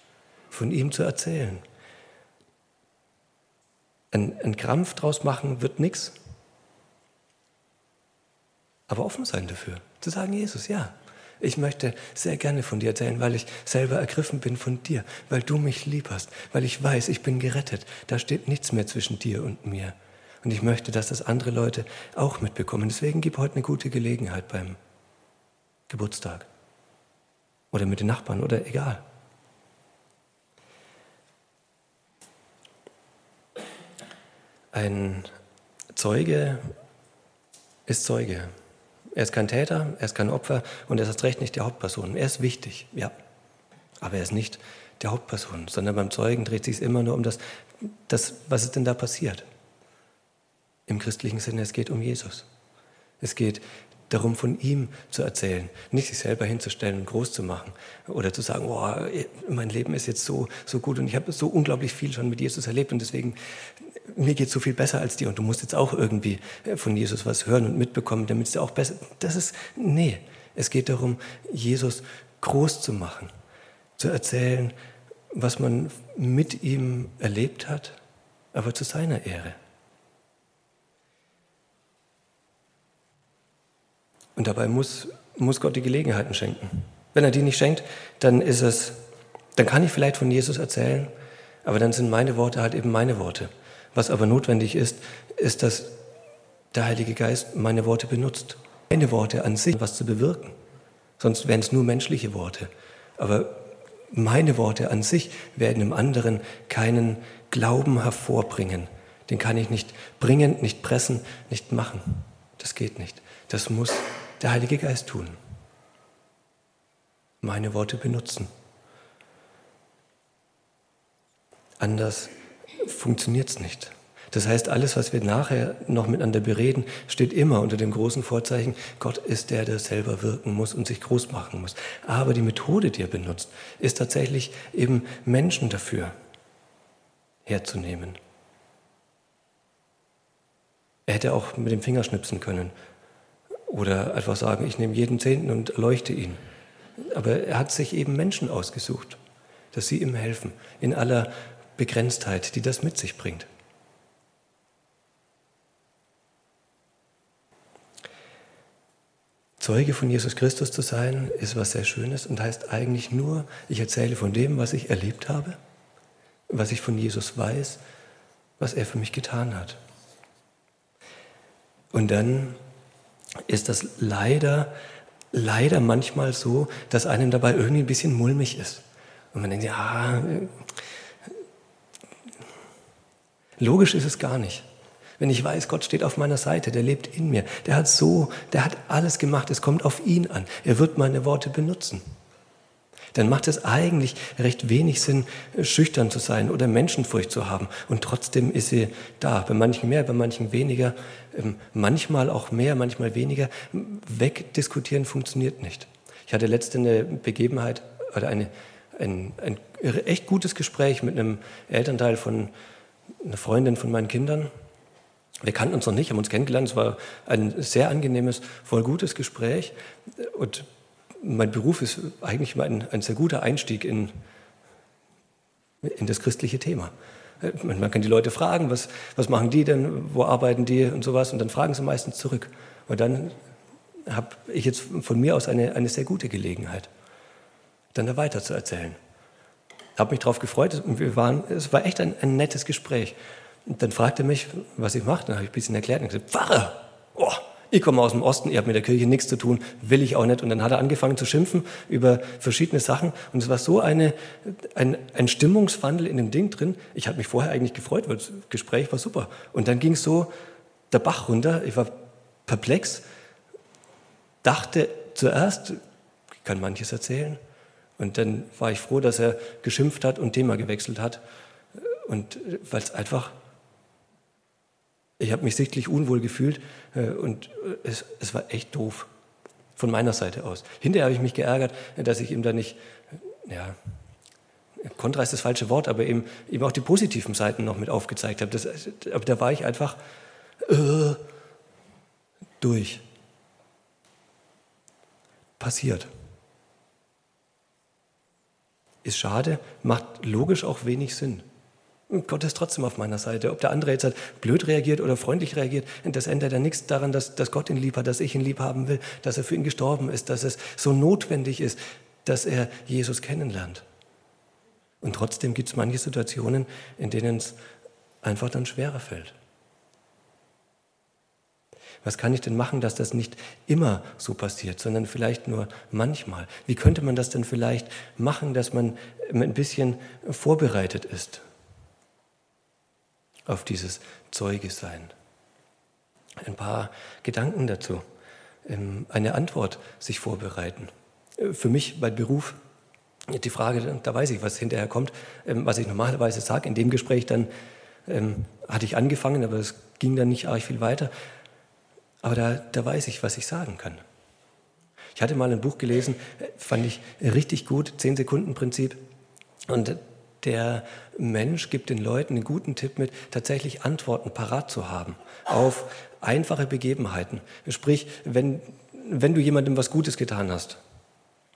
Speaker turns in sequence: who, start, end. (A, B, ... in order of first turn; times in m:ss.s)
0:00.5-0:01.6 A
0:04.1-0:06.2 A
0:08.9-0:24.8 A
0:25.9-0:26.5 A
0:27.7-0:29.0 A
0:34.7-0:35.3 A
0:35.9-0:36.6 A
0:37.9-0:38.5 A
0:39.1-0:43.1 A
0:44.0-0:49.4 A
0:50.9-0:52.5 A
0:53.2-1:03.4 A
1:04.0-1:13.3 A
1:14.0-1:14.7 A
1:15.3-1:18.0 A
1:18.5-1:19.6 A
1:24.4-1:29.0 A
1:29.6-1:31.1 A
1:31.6-1:36.0 A
1:36.7-1:40.5 A
1:41.2-1:55.4 A
1:57.4-1:58.5 A
2:01.8-2:16.1 A
2:17.4-2:18.2 A
2:21.1-2:22.7 A
2:23.7-2:26.4 A
2:27.0-2:29.2 A
2:29.7-2:33.5 A
2:39.6-2:45.6 A
2:46.5-2:47.8 A
2:48.6-2:49.8 A
2:51.9-2:52.6 A
2:53.5-2:54.7 A
2:55.3-3:00.6 A
3:03.6-3:04.6 A
3:05.2-3:12.0 A
3:13.1-3:32.5 A
3:33.2-3:34.5 A
3:35.4-3:44.1 A
3:45.8-3:53.4 A
3:54.0-3:56.9 A
3:57.9-3:59.0 A
4:00.0-4:03.2 A
4:03.7-4:20.3 A
4:20.9-4:23.0 A
4:24.4-4:25.8 A
4:26.4-4:27.4 A
4:28.0-4:31.2 A
4:31.8-4:33.4 A
4:35.2-4:39.1 A
4:39.8-4:43.8 A
4:44.8-4:50.0 A
4:50.6-4:51.2 A
4:52.6-4:53.0 A
4:55.6-4:56.1 A
4:59.0-5:01.4 A
5:02.1-5:13.8 A
5:15.0-5:17.5 A
5:18.2-5:19.3 A
5:22.0-5:31.4 A
5:33.5-5:35.1 A
5:36.4-5:38.0 A
5:38.6-5:42.6 A
5:43.3-5:47.5 A
5:48.1-5:51.1 A
5:52.2-5:54.0 A
5:55.2-5:59.0 A
5:59.7-6:10.8 A